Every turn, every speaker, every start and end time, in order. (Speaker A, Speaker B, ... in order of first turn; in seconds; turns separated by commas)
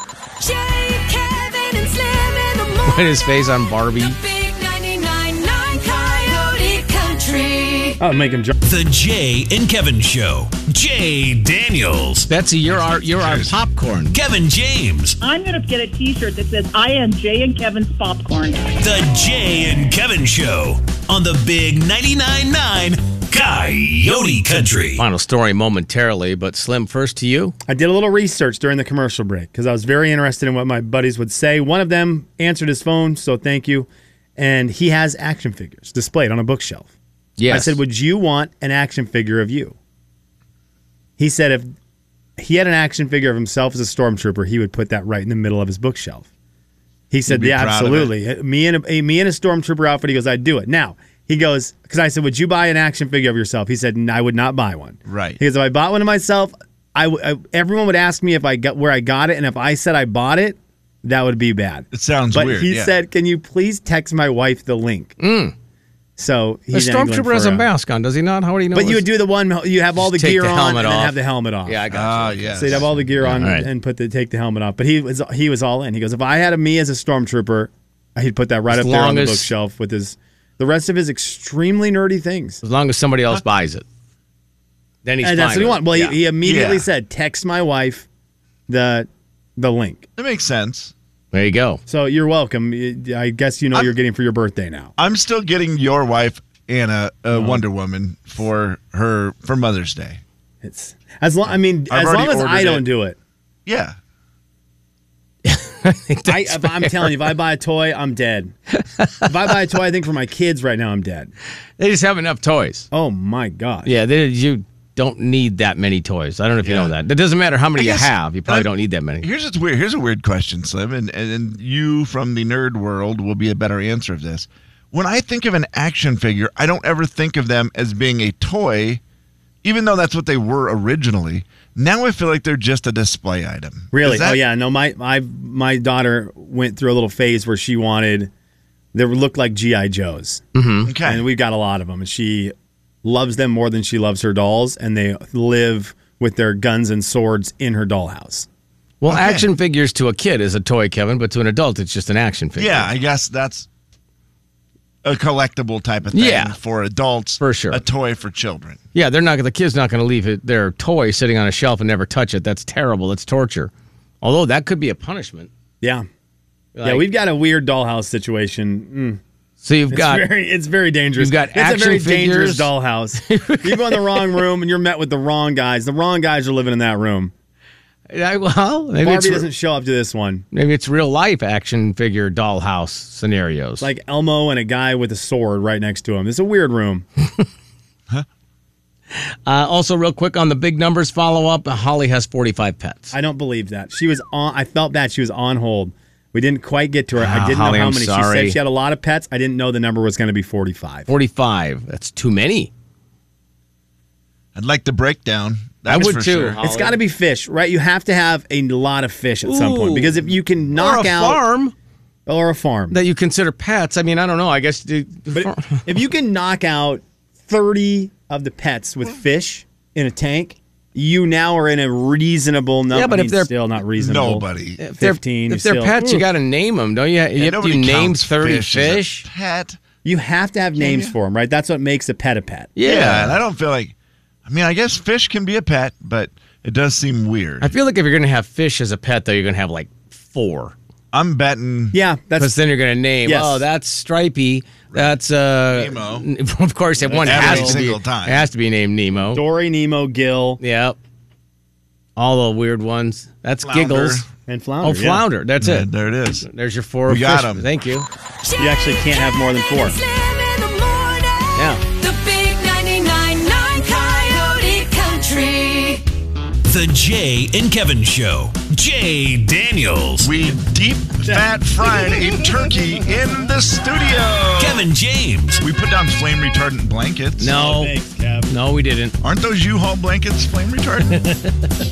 Speaker A: 0.4-3.2, Speaker B: 2.9-4.2, Speaker A: 4.0-8.0, Speaker C: 8.0-8.6, Speaker D: 8.6-12.3, Speaker B: 12.3-14.2, Speaker E: 12.7-13.6, Speaker D: 14.1-15.2, Speaker F: 15.2-18.7, Speaker D: 18.8-25.0, Speaker B: 25.0-27.6, Speaker C: 27.7-36.9, Speaker B: 37.4-37.8, Speaker C: 37.5-39.8, Speaker C: 41.2-41.7, Speaker C: 42.4-46.3, Speaker C: 47.1-65.2, Speaker E: 47.3-48.1, Speaker E: 55.1-55.4, Speaker E: 61.9-63.0, Speaker B: 65.2-65.5, Speaker C: 66.2-67.7, Speaker B: 66.7-69.1, Speaker C: 68.7-71.8, Speaker B: 70.0-73.7, Speaker E: 71.9-73.2, Speaker C: 72.6-82.6, Speaker B: 78.7-79.5, Speaker B: 82.6-83.8, Speaker B: 85.0-86.2, Speaker C: 85.2-88.1, Speaker E: 86.4-86.9, Speaker C: 88.7-90.1, Speaker E: 90.2-90.9, Speaker B: 91.3-91.8, Speaker C: 91.9-94.9, Speaker E: 95.0-100.2, Speaker C: 97.3-97.6, Speaker C: 100.6-103.2, Speaker E: 101.9-102.9, Speaker E: 103.7-104.0, Speaker B: 105.5-107.1, Speaker C: 106.3-108.5, Speaker C: 109.2-111.3, Speaker B: 111.8-112.9, Speaker C: 112.9-113.9, Speaker B: 113.8-119.3, Speaker E: 116.6-116.9, Speaker E: 117.8-129.0, Speaker E: 129.6-134.4, Speaker C: 133.9-138.3, Speaker C: 138.9-140.4, Speaker B: 140.6-140.9, Speaker E: 140.8-141.3, Speaker C: 141.0-148.5, Speaker B: 149.0-152.9, Speaker E: 149.1-149.5, Speaker E: 152.6-153.7, Speaker E: 155.0-158.8, Speaker B: 156.1-156.6, Speaker B: 157.4-157.8, Speaker B: 158.9-163.7, Speaker B: 164.2-165.5, Speaker C: 165.8-166.1, Speaker B: 166.8-167.1, Speaker C: 166.8-169.2, Speaker B: 169.6-170.3, Speaker C: 169.9-177.3, Speaker B: 171.2-172.7, Speaker B: 173.2-174.3, Speaker B: 178.1-179.5, Speaker C: 179.0-180.4, Speaker B: 180.5-183.9, Speaker C: 183.8-187.1, Speaker B: 189.2-193.2, Speaker C: 193.1-201.1, Speaker B: 197.2-198.6, Speaker B: 201.1-202.7, Speaker E: 204.6-206.6, Speaker B: 205.9-207.0, Speaker C: 206.6-211.4, Speaker B: 209.4-211.7, Speaker C: 212.3-213.0, Speaker B: 212.9-215.8, Speaker C: 215.3-224.5, Speaker B: 222.9-223.5, Speaker E: 224.0-224.8, Speaker B: 224.8-229.2, Speaker C: 225.0-226.2, Speaker E: 227.4-229.8, Speaker C: 230.0-232.7, Speaker E: 230.8-231.2, Speaker B: 232.8-233.4, Speaker E: 232.8-233.9, Speaker E: 234.5-237.7, Speaker B: 237.6-240.8, Speaker E: 241.1-242.0, Speaker C: 241.9-242.5, Speaker B: 242.4-249.4, Speaker C: 243.2-243.6, Speaker E: 244.9-246.3, Speaker C: 247.0-247.8, Speaker E: 247.2-248.5, Speaker C: 249.3-250.6, Speaker B: 250.6-251.0, Speaker B: 252.2-254.3, Speaker E: 253.6-254.3, Speaker C: 254.5-255.2, Speaker B: 254.8-255.9, Speaker E: 255.6-256.5, Speaker B: 256.4-258.1, Speaker E: 257.1-257.7, Speaker A: 258.5-259.2, Speaker C: 258.6-260.0, Speaker A: 259.8-266.0, Speaker D: 266.7-270.3, Speaker E: 270.2-274.8, Speaker C: 271.3-272.3, Speaker D: 274.6-275.6, Speaker E: 275.6-277.6, Speaker B: 277.4-277.9, Speaker C: 277.4-278.5, Speaker B: 278.5-279.2, Speaker E: 279.2-281.2, Speaker B: 281.2-281.5